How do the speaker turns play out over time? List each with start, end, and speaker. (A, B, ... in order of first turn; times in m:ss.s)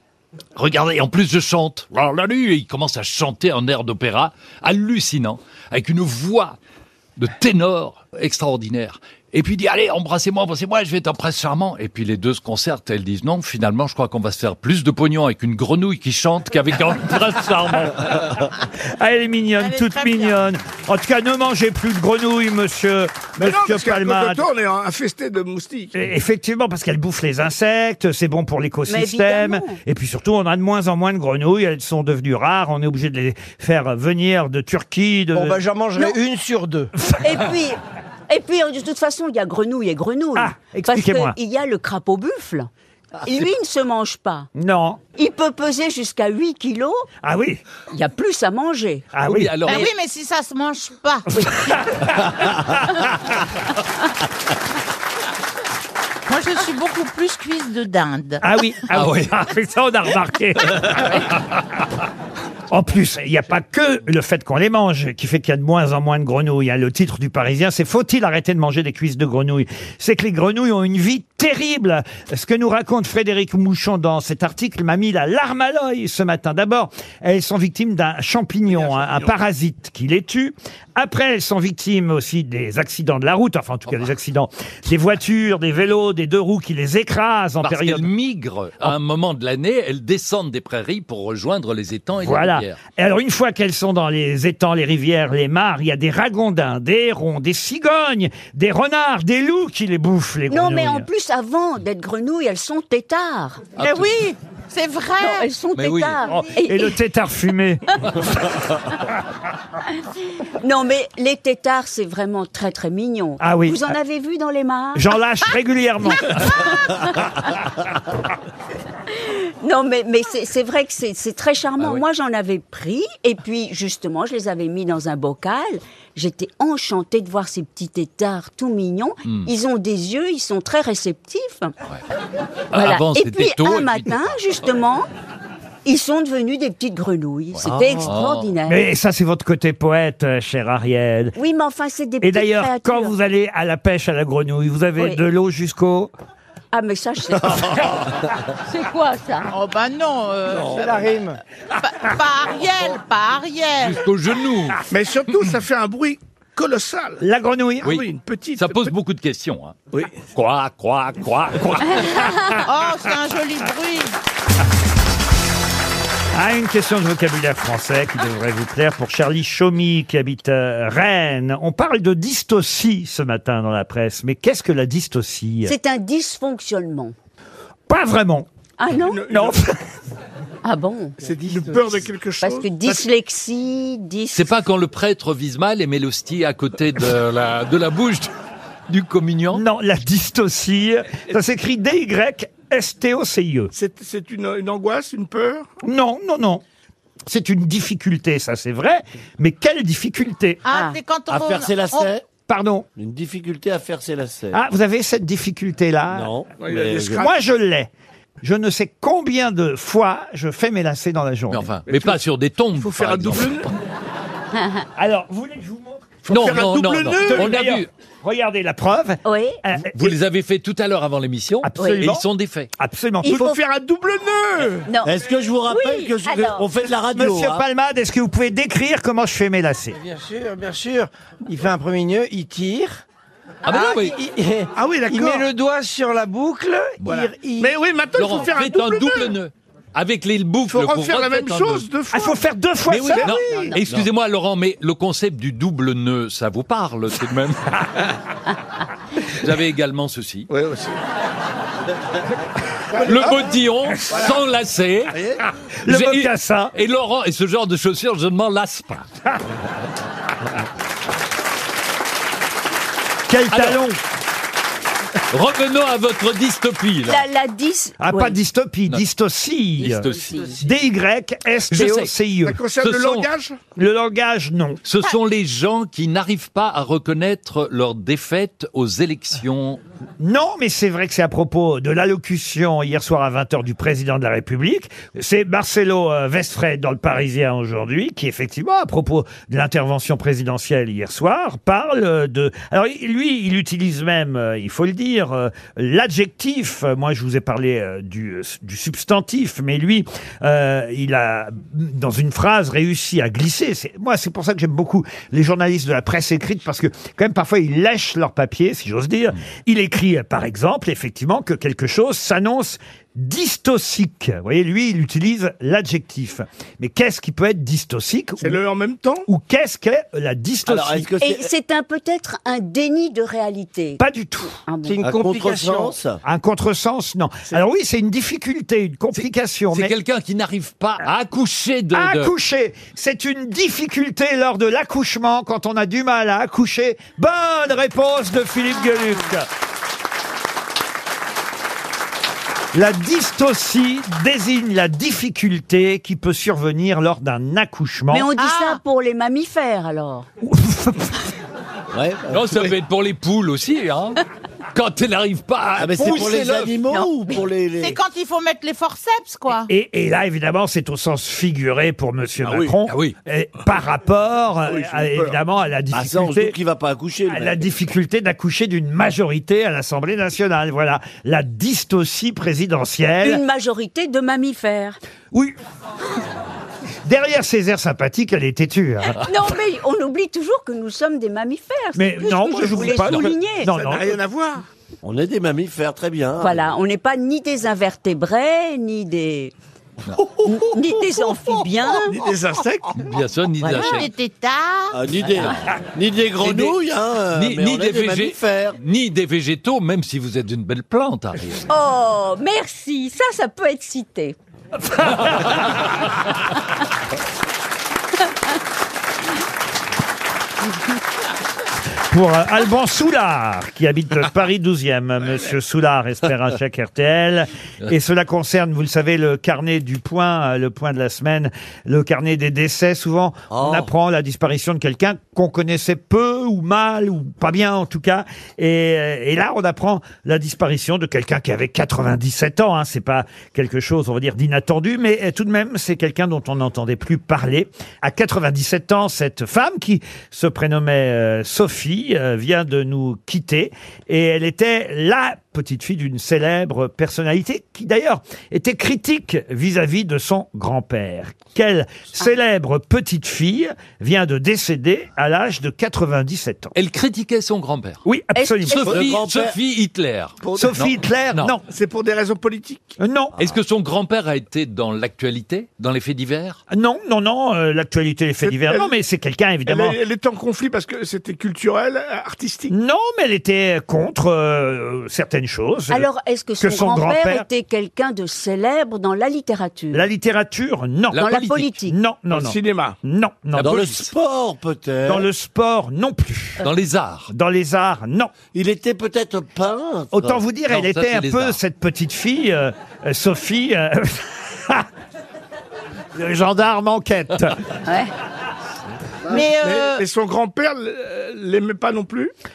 0:00.6-0:06.6 A
0:07.2-0:18.4 A
0:18.9-0:24.4 B
0:19.6-0:20.4 C
0:23.4-0:26.0 D
0:25.9-0:35.6 B
0:28.9-0:29.8 E
0:35.4-0:36.9 F
0:37.2-0:42.7 E
0:40.4-0:41.4 B
0:43.2-0:44.5 E
0:44.6-0:45.0 B
0:45.2-0:47.1 E
0:47.2-0:47.6 B
0:47.9-0:49.1 E
0:49.1-0:49.5 B
0:49.2-0:49.9 A
0:49.6-0:51.3 C
0:51.4-0:52.2 B
0:56.3-0:58.4 C
0:58.4-1:01.2 B
0:58.9-0:59.4 A
1:02.7-1:28.1 B
1:18.7-1:19.3 D
1:27.6-1:32.8 A
1:32.2-1:41.1 B
1:40.5-1:43.6 E
1:43.8-1:44.1 A
1:43.8-1:45.5 C
1:45.2-1:46.9 E
1:45.8-1:46.4 A
1:46.4-1:48.6 B
1:50.6-1:55.1 E
1:53.4-1:53.9 B
1:55.0-1:56.7 B
1:59.1-2:11.7 E
2:12.7-2:14.3 A
2:12.8-2:15.1 E
2:15.8-2:18.8 E
2:17.6-2:18.1 G
2:18.0-2:18.5 A
2:18.7-2:21.4 B
2:21.4-2:23.2 E
2:22.2-2:26.1 B
2:26.7-2:27.9 E
2:27.4-2:28.1 G
2:28.8-2:29.4 E
2:29.4-2:30.9 C
2:30.5-2:31.4 F
2:31.8-2:34.0 C
2:33.8-2:34.8 A
2:34.9-2:37.2 D
2:37.2-2:37.9 B
2:37.8-2:38.9 D
2:37.8-2:39.8 A
2:40.3-2:42.3 A
2:42.1-2:42.5 B
2:42.6-2:44.2 C
2:46.3-2:55.7 B
2:55.6-2:57.2 E
2:57.9-2:58.5 B
2:58.8-2:59.2 E
2:59.1-2:59.6 D
2:59.3-2:59.8 B
3:00.6-3:01.2 E
3:01.2-3:03.0 D
3:01.2-3:02.0 F
3:02.4-3:04.5 E
3:04.3-3:08.3 A
3:08.9-3:09.6 A
3:09.5-3:13.7 B
3:13.7-3:15.7 D
3:15.8-3:16.6 B
3:17.3-3:20.6 B
3:20.6-3:22.1 C
3:21.3-3:22.2 G
3:22.5-3:22.9 B
3:23.0-3:24.6 G
3:24.5-3:26.3 B
3:26.1-3:27.3 G
3:26.6-3:27.3 D
3:27.2-3:27.9 B
3:28.4-3:31.7 B
3:31.5-3:33.7 A
3:31.9-3:32.2 D
3:32.8-3:33.7 D
3:35.0-3:36.2 B
3:36.3-3:37.6 D
3:36.3-3:37.9 A
3:37.2-3:40.1 B
3:39.2-3:39.6 E
3:39.9-3:42.7 A
3:41.6-3:42.2 B
3:41.8-3:42.0 E
3:42.8-3:43.5 B
3:43.2-3:43.6 E
3:43.2-3:44.9 D
3:44.9-3:45.1 E
3:45.0-3:47.6 G
3:45.7-3:46.6 E
3:47.1-3:50.0 B
3:49.9-3:53.0 F
3:53.6-3:57.8 F
3:53.6-3:54.2 A
3:54.8-3:55.5 D
3:57.1-3:59.4 D
3:58.2-4:01.9 A
4:00.7-4:02.4 D
4:02.1-4:03.6 B
4:02.9-4:07.9 A
4:03.2-4:03.6 D
4:09.3-4:10.5 A
4:10.5-4:11.0 D
4:12.9-4:13.6 D
4:13.0-4:15.2 A
4:15.1-4:15.4 G
4:15.8-4:16.7 B
4:15.9-4:19.1 A
4:23.3-4:24.0 B
4:23.5-4:23.8 A
4:25.3-4:27.2 A
4:27.1-4:28.4 E
4:28.0-4:30.1 B
4:29.8-4:30.4 A
4:30.1-4:30.6 E
4:30.6-4:32.6 B
4:31.7-4:32.1 A
4:32.4-4:33.6 D
4:32.8-4:33.3 A
4:33.8-4:34.8 B
4:34.8-4:39.8 A
4:40.2-5:18.6 B
5:18.4-5:19.3 D
5:19.3-5:21.1 B
5:20.7-5:21.5 G
5:21.2-5:24.0 E
5:24.0-5:24.6 B
5:24.6-5:25.0 E
5:24.9-5:26.0 F
5:25.0-5:26.2 G
5:26.2-5:29.9 B
5:29.2-5:32.3 A
5:31.9-5:39.5 B
5:42.7-5:48.3 B
5:48.1-5:50.3 E
5:48.4-5:48.8 C
5:50.4-5:51.1 B
5:51.9-5:52.7 G
5:52.3-5:54.2 A
5:54.7-5:56.7 A
5:55.8-5:58.0 G
5:56.9-5:57.4 E
5:57.8-5:59.7 C
5:59.7-6:06.6 B
6:02.4-6:02.7 G
6:02.9-6:03.2 A
6:04.7-6:05.4 D
6:05.9-6:07.7 G
6:07.3-6:13.4 B
6:13.2-6:15.0 E
6:17.0-6:19.2 B
6:19.2-6:23.7 E
6:22.0-6:24.2 B
6:23.0-6:23.2 A
6:23.7-6:24.6 D
6:25.0-6:26.7 G
6:26.4-6:29.5 E
6:30.4-6:32.2 E
6:31.9-6:32.9 D
6:33.0-6:34.1 A
6:33.6-6:35.0 C
6:34.9-6:38.8 G
6:36.4-6:36.8 A
6:37.3-6:41.6 A
6:41.7-6:44.4 E
6:52.1-7:36.7 B
7:03.5-7:03.9 G
7:36.8-7:38.0 A
7:38.0-7:39.0 B
7:38.4-7:38.9 E
7:38.7-7:41.5 A
7:38.8-7:39.6 G
7:40.4-7:40.7 D
7:40.6-7:41.6 B
7:41.7-7:43.0 D
7:43.0-7:43.4 B
7:43.4-7:46.6 A
7:46.7-7:50.0 B
7:48.4-7:48.9 D
7:49.7-7:52.7 D
7:52.7-7:56.1 B
7:55.9-8:00.0 E
7:56.6-7:57.5 B
7:59.9-8:04.1 B
8:01.1-8:01.7 A
8:01.2-8:02.0 E
8:02.3-8:03.0 D
8:03.6-8:03.8 A
8:03.6-8:05.3 G
8:05.1-8:06.6 B
8:06.6-8:07.3 A
8:07.3-8:08.3 B
8:08.5-8:10.4 G
8:10.1-8:14.9 B
8:10.7-8:11.6 A
8:16.2-8:17.6 B
8:17.9-8:18.1 E
8:19.3-8:20.0 C
8:19.4-8:22.3 D